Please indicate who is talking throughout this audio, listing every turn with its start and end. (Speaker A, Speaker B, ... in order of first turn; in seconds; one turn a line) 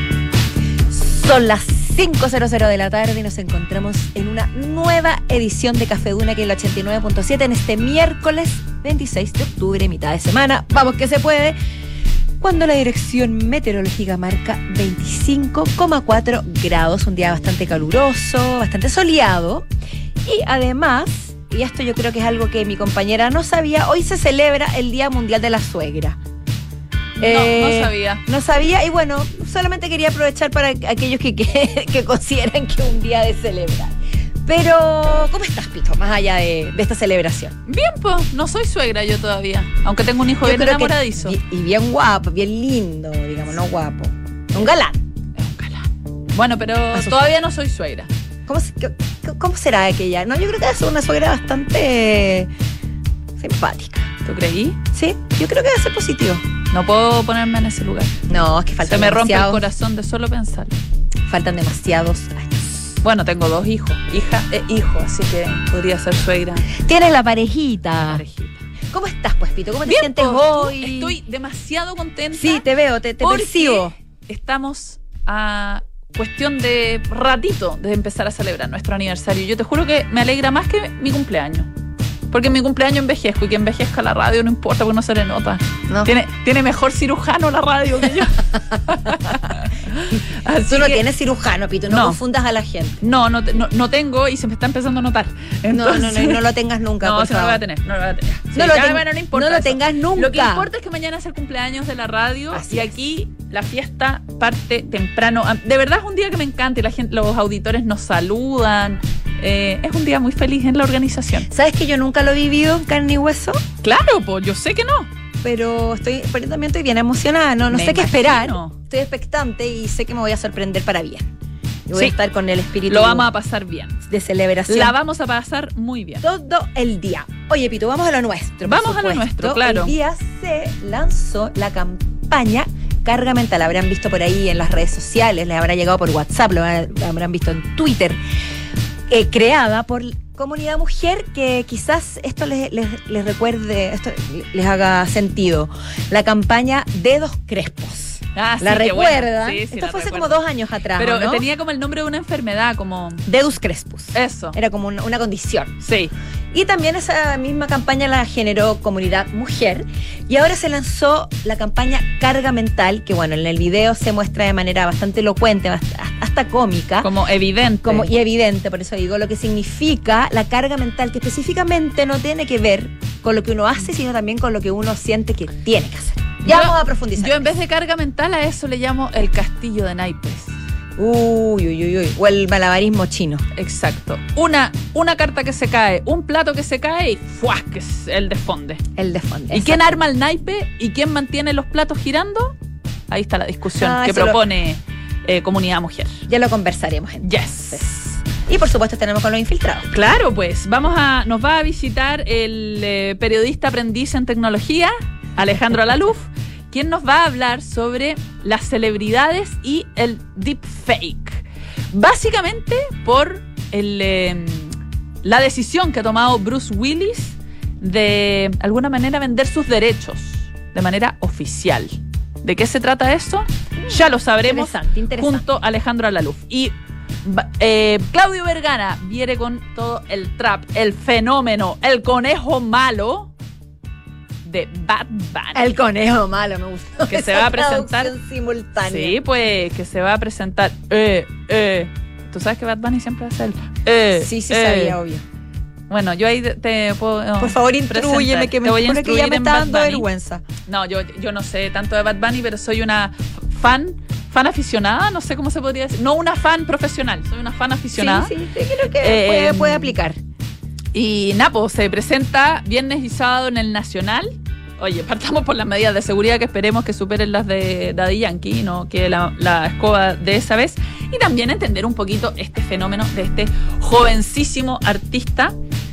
Speaker A: 0.9-11.6
Speaker A: 12.4-19.7
Speaker A: 20.2-26.2
Speaker B: 27.2-28.2
Speaker A: 27.2-37.5
Speaker B: 37.7-41.4
Speaker A: 40.4-45.0
Speaker B: 45.4-48.1
Speaker A: 48.5-52.5
Speaker A: 53.4-54.1
Speaker B: 54.2-54.8
Speaker A: 54.9-56.4
Speaker B: 56.7-58.1
Speaker A: 58.3-59.6
Speaker B: 58.9-60.8
Speaker A: 61.3-62.9
Speaker B: 63.0-66.7
Speaker A: 66.7-68.2
Speaker B: 68.0-68.6
Speaker A: 68.9-71.2
Speaker B: 69.8-72.7
Speaker A: 72.3-73.9
Speaker B: 73.2-81.7
Speaker B: 82.3-91.0
Speaker A: 85.9-86.1
Speaker A: 90.7-93.0
Speaker B: 91.9-92.2
Speaker B: 93.0-96.4
Speaker A: 95.7-97.6
Speaker B: 97.0-111.5
Speaker A: 98.5-100.7
Speaker A: 102.5-102.9
Speaker A: 111.5-113.6
Speaker B: 113.8-115.1
Speaker A: 115.4-121.3
Speaker B: 117.7-118.8
Speaker A: 121.9-123.3
Speaker B: 122.9-124.0
Speaker A: 124.0-125.0
Speaker B: 124.7-126.2
Speaker A: 126.2-138.2
Speaker B: 128.6-129.9
Speaker A: 139.1-151.4
Speaker B: 148.3-150.4
Speaker B: 151.0-153.2
Speaker A: 153.2-155.7
Speaker B: 154.1-154.6
Speaker B: 155.8-156.1
Speaker A: 156.5-167.1
Speaker B: 167.0-168.1
Speaker A: 167.8-177.5
Speaker B: 176.4-180.5
Speaker A: 181.0-183.4
Speaker B: 183.5-188.8
Speaker A: 188.9-190.0
Speaker B: 189.5-192.5
Speaker B: 193.1-196.2
Speaker A: 193.8-194.4
Speaker A: 196.3-199.9
Speaker B: 197.2-197.9
Speaker B: 199.9-226.7
Speaker A: 223.8-225.4
Speaker B: 227.2-233.3
Speaker B: 234.4-235.7
Speaker A: 235.5-239.2
Speaker B: 237.1-238.1
Speaker B: 238.8-245.0
Speaker A: 244.2-245.2
Speaker B: 245.9-250.1
Speaker A: 247.4-250.4
Speaker B: 250.7-258.3
Speaker A: 257.9-260.2
Speaker B: 259.0-260.0
Speaker B: 260.9-275.6